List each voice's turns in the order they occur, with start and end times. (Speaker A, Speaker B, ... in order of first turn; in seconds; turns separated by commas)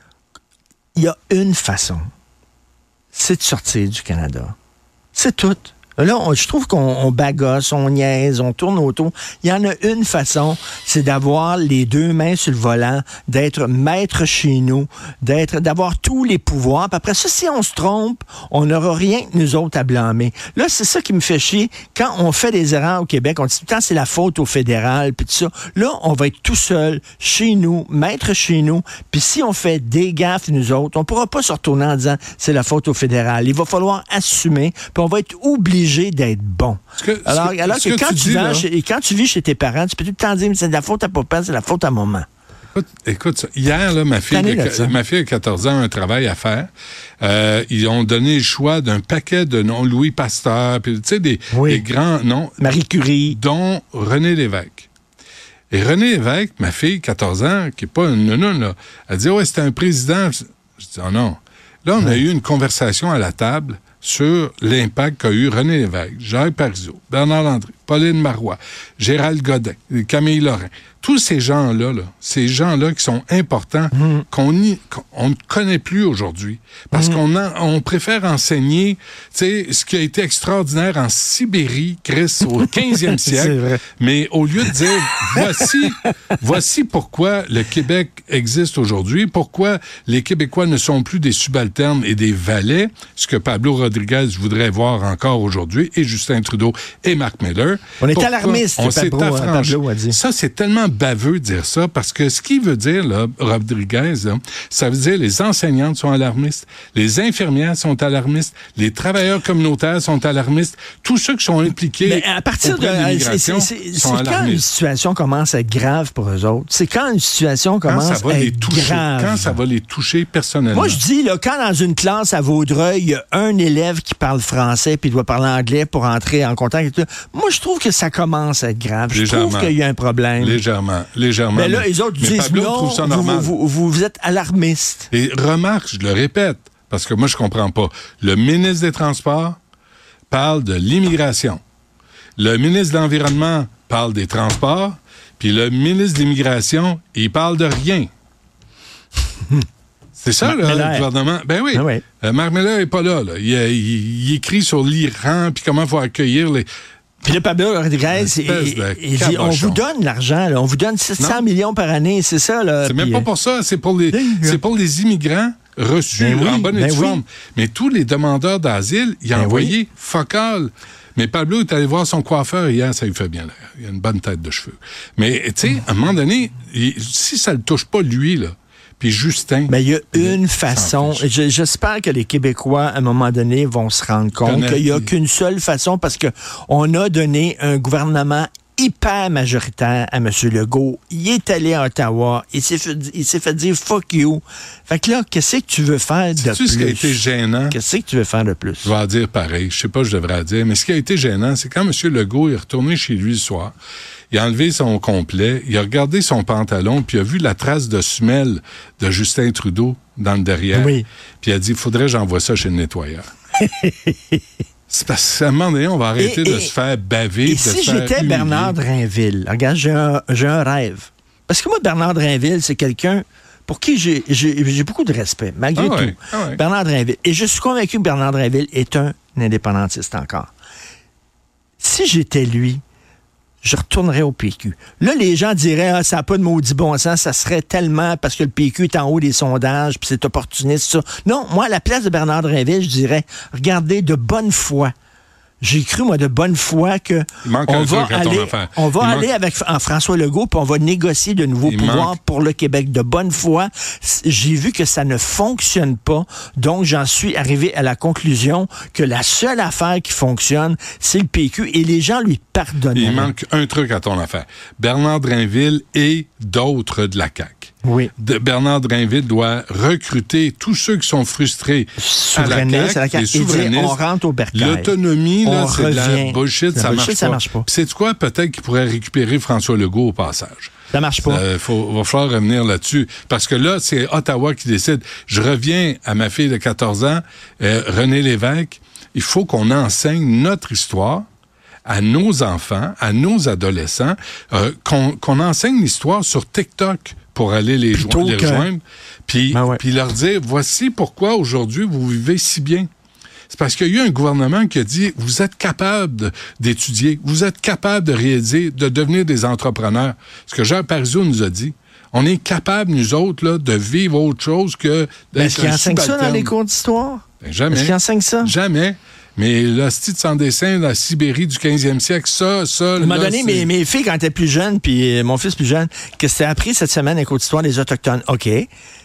Speaker A: 0.9-2.1, Speaker A: 3.1-4.5, Speaker A: 5.1-42.3, Speaker B: 37.0-38.6, Speaker B: 42.7-46.7, Speaker A: 44.3-45.0, Speaker B: 47.2-52.6, Speaker A: 51.5-51.9, Speaker A: 52.6-53.4, Speaker B: 53.3-54.9, Speaker B: 55.7-114.6, Speaker A: 73.9-74.2, Speaker A: 76.9-77.2, Speaker A: 83.2-83.8, Speaker A: 98.0-100.2, Speaker A: 112.0-119.6, Speaker B: 117.8-121.0, Speaker A: 120.7-130.6, Speaker B: 129.1-129.8, Speaker B: 130.4-133.5, Speaker A: 131.5-135.1, Speaker B: 135.1-139.6, Speaker B: 140.3-141.6, Speaker B: 142.4-148.1, Speaker B: 150.2-156.7, Speaker A: 150.4-151.1, Speaker A: 151.7-152.0, Speaker A: 157.2-163.3, Speaker B: 158.1-159.8, Speaker B: 161.2-161.4, Speaker B: 162.8-181.2, Speaker A: 164.1-164.6, Speaker A: 166.2-167.2, Speaker A: 169.3-169.8, Speaker A: 179.7-198.9, Speaker B: 184.4-185.1, Speaker B: 196.4-197.8, Speaker B: 198.8-203.7, Speaker B: 204.3-213.3, Speaker A: 210.7-211.0, Speaker A: 213.6-214.4, Speaker B: 214.9-218.8, Speaker A: 216.2-216.7, Speaker A: 217.4-230.5, Speaker B: 225.8-226.6, Speaker A: 231.8-232.8, Speaker A: 233.6-244.9, Speaker A: 245.6-263.3, Speaker B: 247.4-249.3, Speaker B: 251.7-252.2, Speaker B: 262.9-274.0, Speaker A: 267.8-268.1, Speaker A: 272.0-277.6, Speaker B: 274.5-280.7, Speaker A: 280.9-281.4, Speaker B: 281.2-291.3, Speaker B: 291.8-302.9, Speaker A: 297.9-298.7, Speaker A: 299.5-299.8, Speaker B: 303.5-316.5, Speaker A: 315.3-318.5, Speaker B: 317.4-323.7, Speaker A: 323.0-328.7